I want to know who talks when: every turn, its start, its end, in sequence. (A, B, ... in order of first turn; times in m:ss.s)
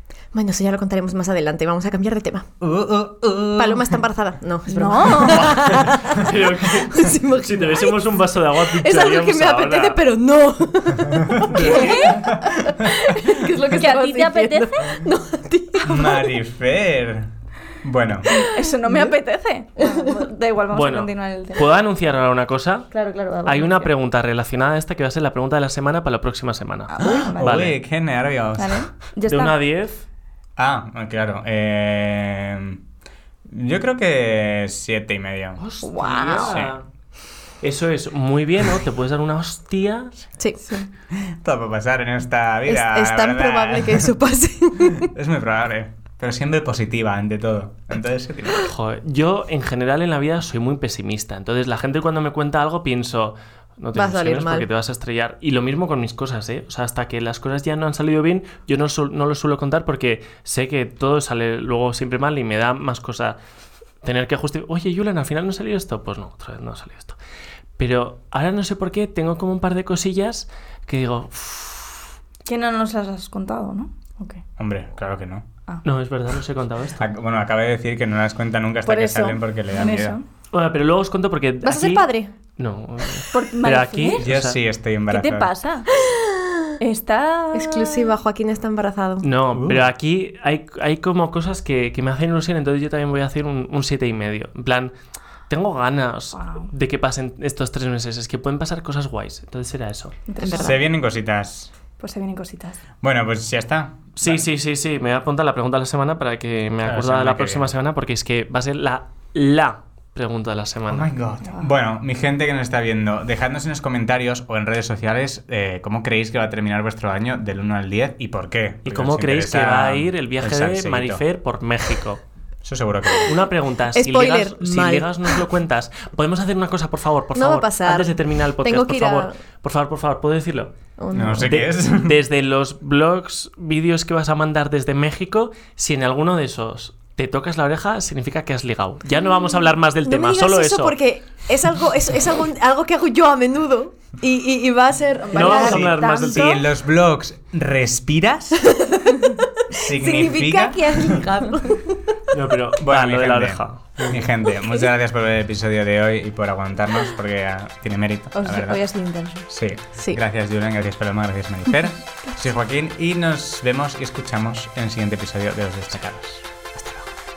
0:00.3-0:02.5 A
0:02.6-0:04.0 B
0:03.5-0:06.3 A
0:04.7-0:05.6 C
0:05.2-0:10.0 D
0:06.9-0:16.4 A
0:11.1-0:13.3 B
0:11.5-0:11.9 D
0:11.6-0:12.2 C
0:13.7-0:15.0 C
0:15.8-0:17.3 B
0:17.8-0:18.3 B
0:18.3-0:19.1 A
0:18.4-0:21.6 C
0:19.8-0:20.2 A
0:20.7-0:22.9 D
0:22.9-0:23.9 C
0:23.4-0:27.8 D
0:26.9-0:27.6 C
0:27.0-0:28.9 B
0:28.6-0:29.5 C
0:29.3-0:30.0 D
0:30.6-0:32.8 B
0:33.5-0:35.6 B
0:35.6-0:36.8 D
0:35.8-0:36.6 C
0:36.5-0:36.7 B
0:37.6-0:40.1 D
0:41.1-0:44.1 B
0:42.7-0:45.1 A
0:44.8-0:48.7 B
0:48.6-1:03.4 D
0:53.9-0:54.6 A
1:04.0-1:07.2 D
1:07.8-1:12.0 D
1:12.4-1:14.4 C
1:14.6-1:15.5 B
1:15.8-1:17.1 D
1:17.0-1:20.2 B
1:18.8-1:20.2 C
1:20.5-1:24.6 D
1:21.6-1:22.3 A
1:23.3-1:24.3 C
1:24.1-1:25.5 B
1:25.1-1:25.9 C
1:26.0-1:26.6 A
1:26.8-1:28.2 C
1:27.5-1:29.3 A
1:29.2-1:34.9 D
1:29.5-1:29.9 B
1:35.5-1:40.2 D
1:36.3-1:36.7 C
1:40.3-1:40.8 C
1:40.4-1:40.8 A
1:40.5-1:41.7 B
1:42.0-1:42.8 C
1:43.0-1:44.4 B
1:44.2-1:51.1 D
1:46.8-1:47.7 B
1:50.9-2:01.2 B
1:58.8-2:02.2 D
2:02.6-2:03.5 B
2:03.2-2:10.7 D
2:03.9-2:05.4 A
2:07.3-2:09.3 A
2:11.0-2:11.5 A
2:11.1-2:12.2 B
2:11.4-2:21.0 D
2:20.0-2:26.0 A
2:25.2-2:26.6 C
2:25.3-2:26.6 D
2:25.6-2:28.6 B
2:28.8-2:29.4 A
2:29.7-2:31.2 B
2:29.9-2:32.0 A
2:32.3-2:34.3 D
2:32.8-2:38.8 B
2:38.3-2:39.5 C
2:39.5-2:47.0 B